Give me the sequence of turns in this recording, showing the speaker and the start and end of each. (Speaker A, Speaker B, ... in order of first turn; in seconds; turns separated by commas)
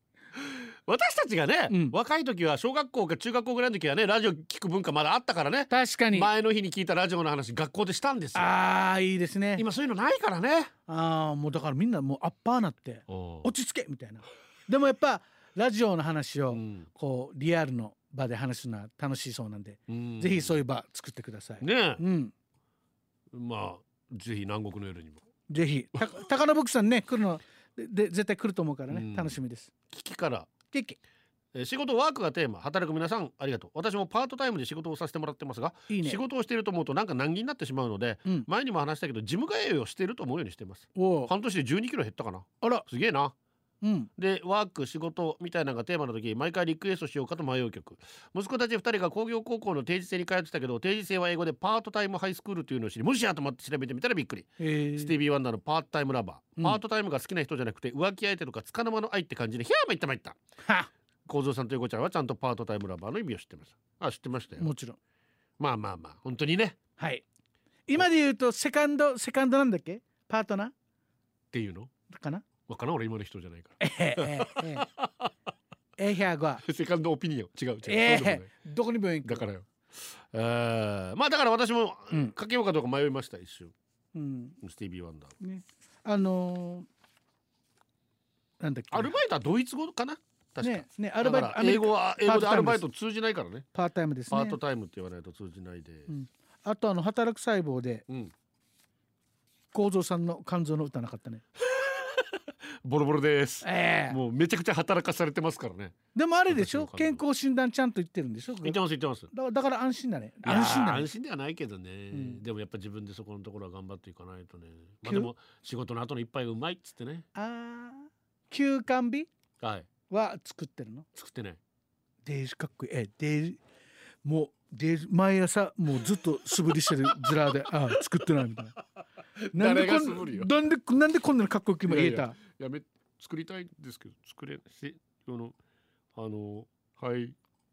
Speaker A: 0.4-8.5, Speaker B: 1.7-2.0, Speaker B: 5.7-6.3, Speaker B: 8.3-9.6, Speaker A: 9.6-10.7, Speaker B: 10.9-22.3, Speaker A: 13.1-13.5, Speaker A: 16.5-16.9, Speaker A: 19.9-20.6, Speaker A: 21.6-22.0, Speaker A: 23.3-25.2, Speaker B: 25.5-29.7, Speaker A: 28.9-29.4, Speaker A: 29.9-30.5, Speaker B: 30.7-31.0, Speaker A: 31.5-43.3, Speaker B: 35.9-36.2, Speaker B: 41.0-41.3, Speaker B: 43.8-44.1, Speaker A: 44.2-60.4, Speaker B: 54.6-55.1, Speaker B: 60.6-60.9, Speaker A: 61.3-64.7, Speaker B: 64.6-65.0, Speaker A: 65.6-66.8, Speaker B: 67.0-67.2, Speaker B: 67.9-70.7, Speaker A: 71.5-71.9, Speaker B: 72.1-72.5, Speaker A: 72.7-75.3, Speaker B: 73.8-74.9, Speaker B: 76.0-76.6, Speaker A: 76.6-78.5, Speaker B: 77.9-79.5, Speaker A: 79.2-83.7, Speaker B: 84.1-84.6, Speaker A: 84.6-85.3, Speaker B: 85.4-86.9, Speaker B: 88.6-89.2, Speaker A: 88.9-93.7, Speaker B: 90.6-92.8, Speaker B: 93.7-94.6, Speaker A: 94.3-96.1, Speaker B: 96.1-98.0, Speaker B: 99.7-101.4, Speaker A: 101.7-106.0, Speaker B: 103.6-104.2, Speaker B: 106.2-108.8, Speaker A: 106.5-107.2, Speaker A: 108.6-109.3, Speaker B: 109.3-111.1, Speaker A: 110.4-117.3, Speaker B: 112.1-112.4, Speaker B: 115.0-115.3, Speaker B: 117.4-119.3, Speaker A: 119.6-119.9, Speaker B: 120.1-121.1, Speaker A: 121.2-121.6, Speaker B: 122.2-123.6, Speaker B: 124.2-128.8, Speaker A: 129.4-130.5, Speaker B: 129.5-132.4, Speaker A: 131.9-135.6, Speaker A: 136.2-137.4